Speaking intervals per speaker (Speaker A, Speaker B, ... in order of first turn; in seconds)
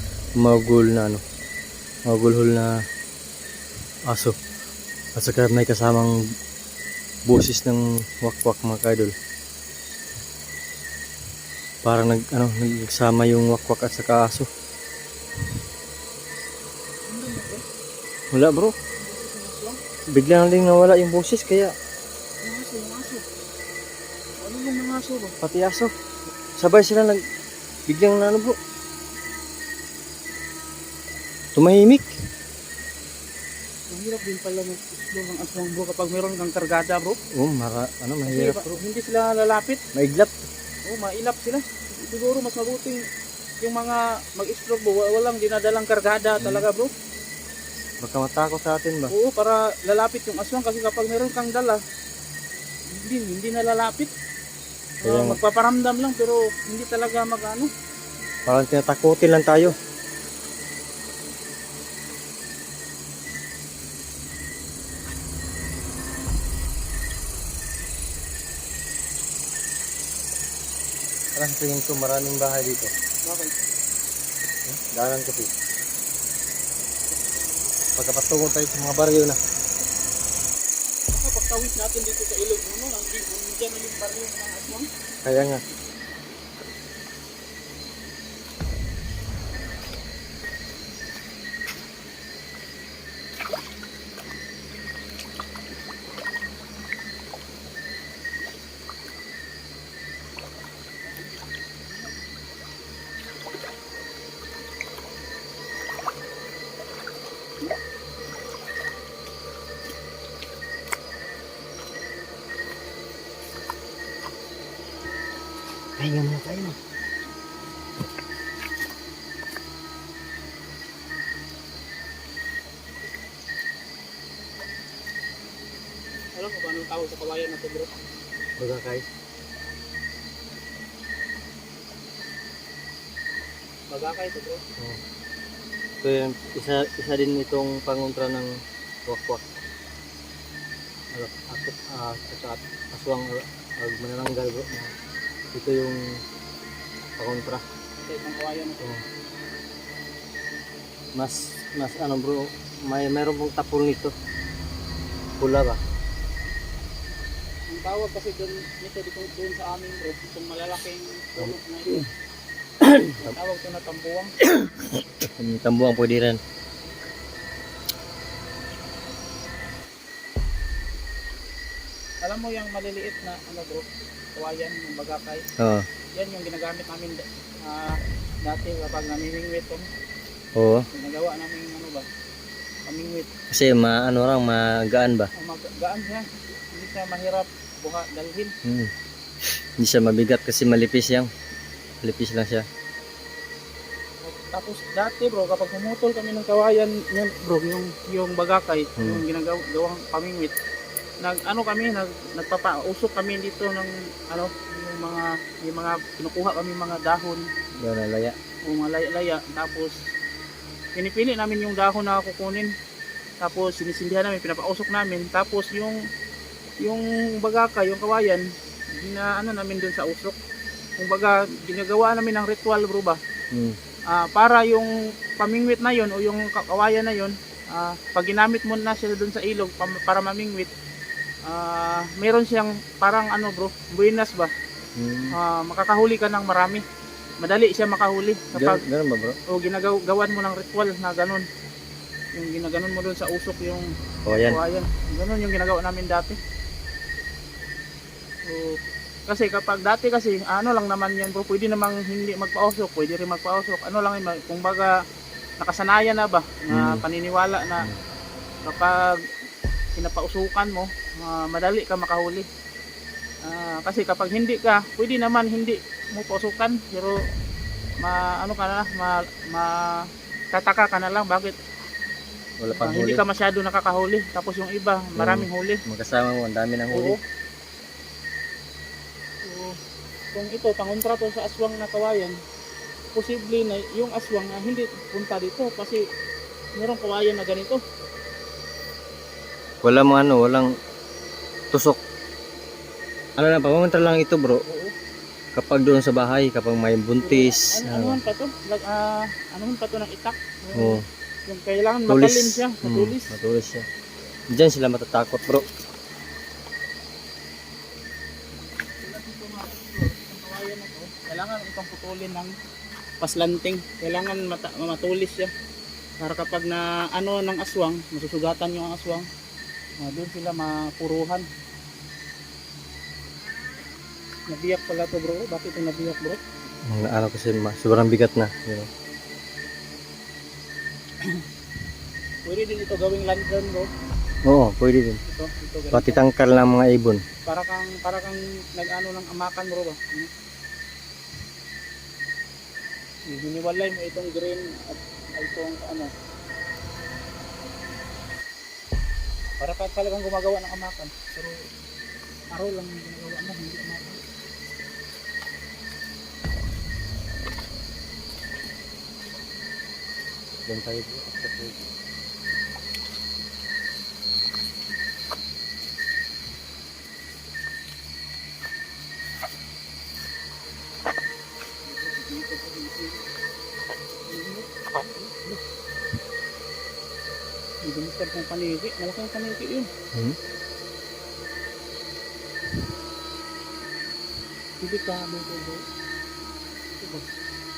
Speaker A: 0.4-1.2, 2.1-2.7, 4.1-4.3, 5.2-6.1, 7.3-9.1, 11.8-14.5, 18.3-18.8, 20.1-21.7, 25.4-25.9, 26.6-27.2, 27.9-28.6, 31.6-32.1, 37.4-38.8, 40.0-40.3, 46.4-46.7, 48.0-49.1, 55.0-55.4, 58.5-59.8, 71.4-72.9, 74.7-75.5, 78.0-79.4, 85.2-85.6, 116.0-116.8, 128.6-129.1, 136.0-138.5, 139.1-139.4, 141.1-144.9, 145.5-146.2, 147.2-147.6, 151.2-154.1, 155.4-155.8, 161.4-162.1, 162.8-163.3, 164.4-166.4, 175.6-175.9, 180.6-180.9, 183.5-185.3, 188.7-188.9, 189.5-191.3, 192.0-192.7, 207.8-208.3, 235.0-235.4, 238.6-239.4, 244.3-244.6, 256.7-257.0, 272.6-273.2, 275.2-277.2, 289.8-290.7, 291.7-292.0, 293.4-294.6, 295.6-298.2, 300.8-301.0, 302.1-303.9, 304.5-305.7, 326.9-328.9, 334.4-335.2, 335.9-337.2, 360.7-361.8
Speaker B: 17.1-17.6, 19.0-19.8, 22.4-23.2, 24.4-25.4, 33.9-37.2, 38.3-39.8, 40.9-43.0, 43.6-46.9, 49.1-51.8, 52.9-54.1, 55.0-57.7, 73.2-73.6, 81.1-84.9, 101.9-102.2, 126.4-128.0, 133.9-134.6, 148.1-149.0, 157.7-162.1, 163.1-164.4, 172.2-175.4, 176.1-179.9, 180.9-182.1, 182.9-183.3, 185.4-188.5, 194.2-200.5, 201.2-207.5, 208.7-210.1, 210.9-212.7, 213.4-216.0, 216.8-218.4, 219.0-220.4, 221.0-223.2, 224.1-230.7, 231.5-234.5, 235.3-236.8, 237.4-238.8, 239.5-241.4, 242.3-246.4, 248.5-254.9, 255.6-257.9, 258.6-259.2, 260.0-262.5, 263.5-267.2, 268.0-270.0, 270.5-271.6, 272.7-275.8, 276.9-277.2, 279.5-279.7, 280.4-282.3, 283.1-286.0, 286.8-287.8, 294.7-294.9, 297.2-303.3, 309.0-312.5, 313.2-315.5, 316.2-319.3, 320.0-321.5, 324.5-326.4, 332.5-333.9, 335.3-336.2, 337.5-340.3, 343.3-346.1, 349.6-351.6, 352.5-354.2, 371.9-373.2, 374.3-375.6, 377.8-379.9, 384.8-385.8, 387.0-387.3